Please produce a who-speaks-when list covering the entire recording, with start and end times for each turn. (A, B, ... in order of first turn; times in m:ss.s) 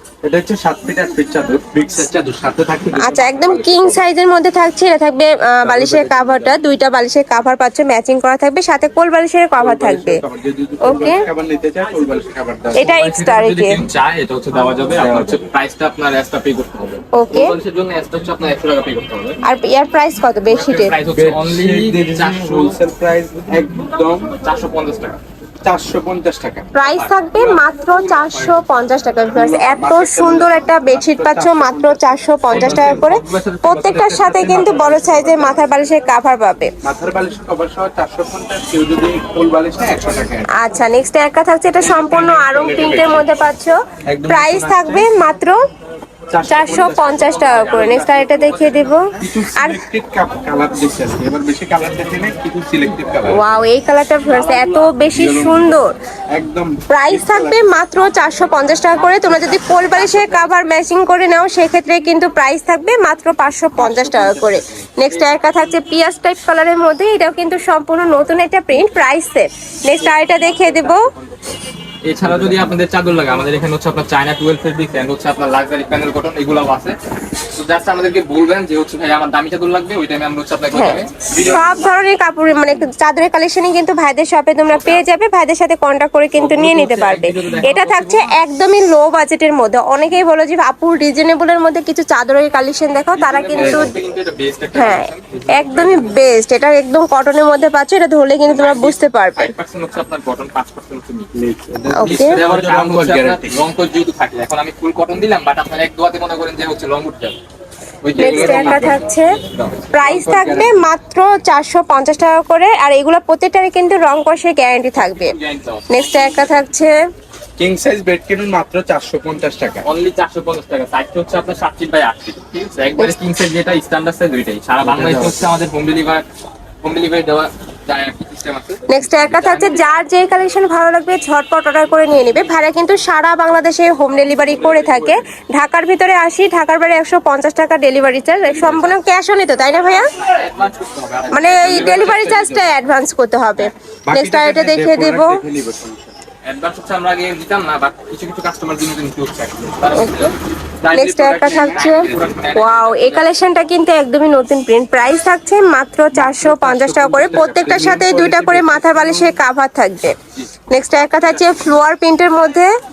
0:00.2-0:04.0 A
0:03.0-0:10.2 B
0:05.6-0:06.6 A
0:09.6-0:12.9 A
0:10.8-0:11.2 B
0:12.8-0:13.8 B
0:12.8-0:19.4 C
0:14.9-0:15.4 A
0:17.1-0:17.6 B
0:19.4-0:20.9 B
0:20.5-0:22.8 C
0:21.1-0:24.4 A
0:24.4-0:25.2 C
0:25.6-0:26.7 A
0:26.8-0:36.7 B
0:26.8-0:28.6 C
0:29.3-0:33.1 A
0:32.5-0:34.2 C
0:33.8-0:35.7 A
0:36.8-0:40.5 A
0:40.5-0:45.6 B
0:41.8-0:43.4 A
0:44.1-0:45.1 A
0:46.3-0:48.3 A
0:46.5-0:49.8 B
0:47.0-0:49.0 C
0:49.2-0:53.4 A
0:53.3-0:55.9 B
0:54.4-0:55.0 C
0:55.0-0:57.7 A
0:56.9-1:11.1 B
0:59.0-1:00.6 C
1:03.8-1:04.9 A
1:10.0-1:11.3 C
1:12.0-1:17.0 C
1:12.2-1:12.8 A
1:17.5-1:21.7 C
1:20.7-1:33.9 B
1:21.3-1:21.9 A
1:24.7-1:25.0 C
1:26.4-1:28.4 C
1:33.1-1:36.2 C
1:33.6-1:34.0 A
1:34.7-1:39.5 B
1:38.5-1:41.3 C
1:41.4-1:43.7 A
1:42.0-1:42.4 B
1:42.0-1:47.4 C
1:48.0-1:49.9 C
1:48.1-1:49.0 A
1:48.2-1:49.4 B
1:49.9-1:55.3 B
1:49.9-1:50.9 A
1:55.0-1:56.6 C
1:55.9-1:57.0 B
1:57.6-1:59.9 A
1:59.8-2:06.2 C
2:04.8-2:05.5 A
2:06.8-2:09.9 C
2:08.9-2:20.1 B
2:14.4-2:15.2 C
2:18.4-2:19.0 C
2:19.9-2:22.2 C
2:21.3-2:25.4 B
2:21.6-2:22.7 A
2:24.1-2:26.2 A
2:26.4-2:33.3 C
2:29.9-2:30.3 B
2:30.9-2:32.3 A
2:30.9-2:40.2 B
2:36.1-2:39.4 A
2:40.7-2:42.7 B